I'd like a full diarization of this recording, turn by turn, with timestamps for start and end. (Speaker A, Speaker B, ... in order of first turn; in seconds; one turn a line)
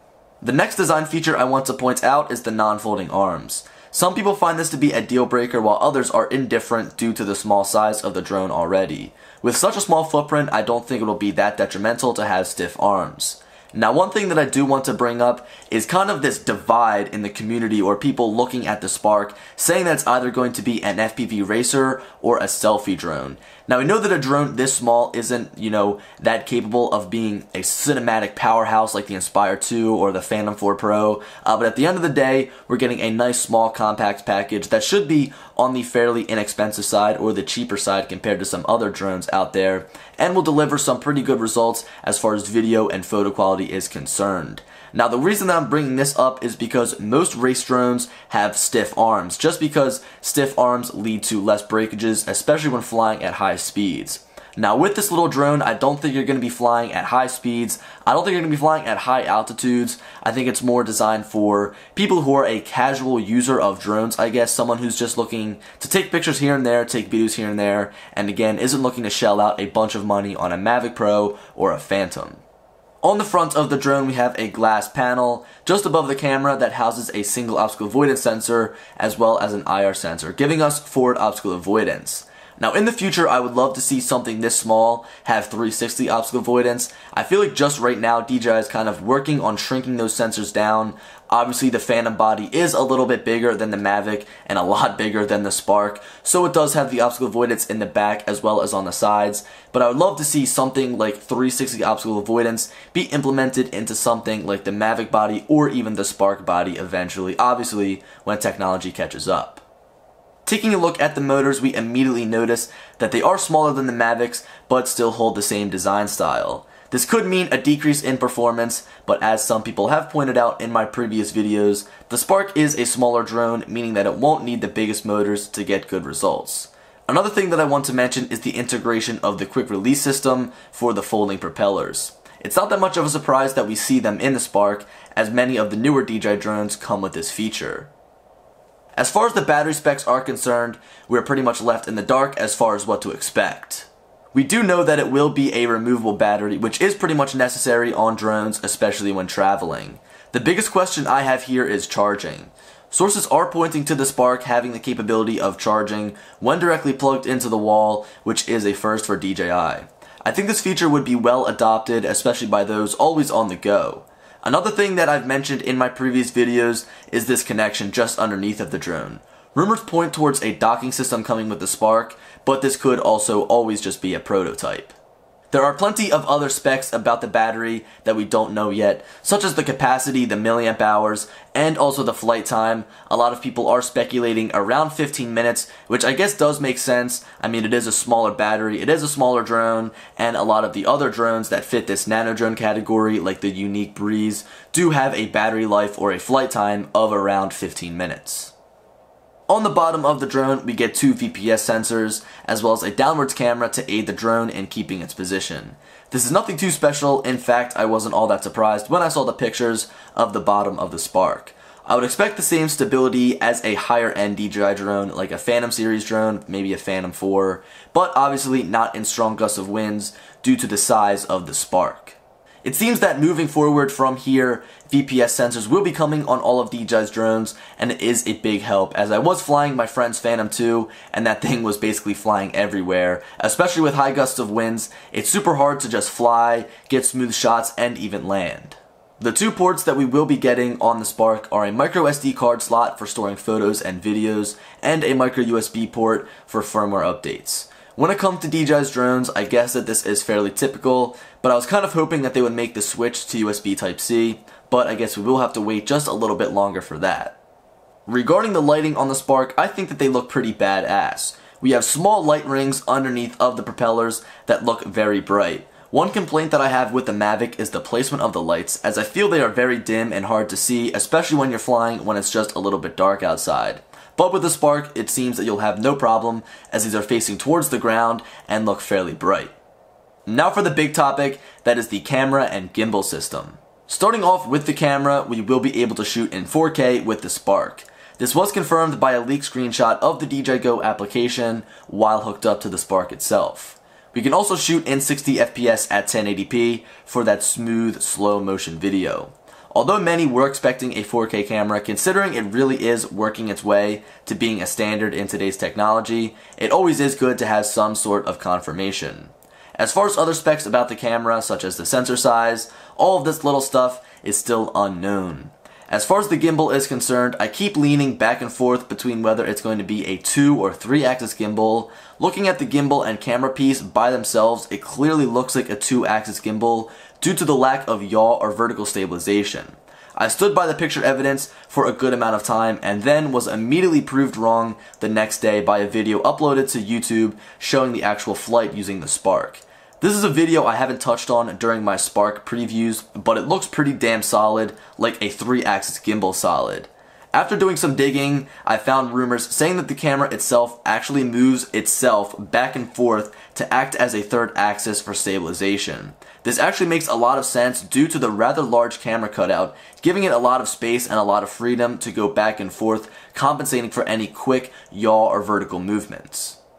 Speaker A: 0.4-72.4
Speaker A: 73.0-109.6
Speaker A: 110.5-137.9
Speaker A: 139.0-175.0
Speaker A: 175.5-198.5
Speaker A: 199.5-257.4
Speaker A: 258.1-279.5
Speaker A: 280.3-366.6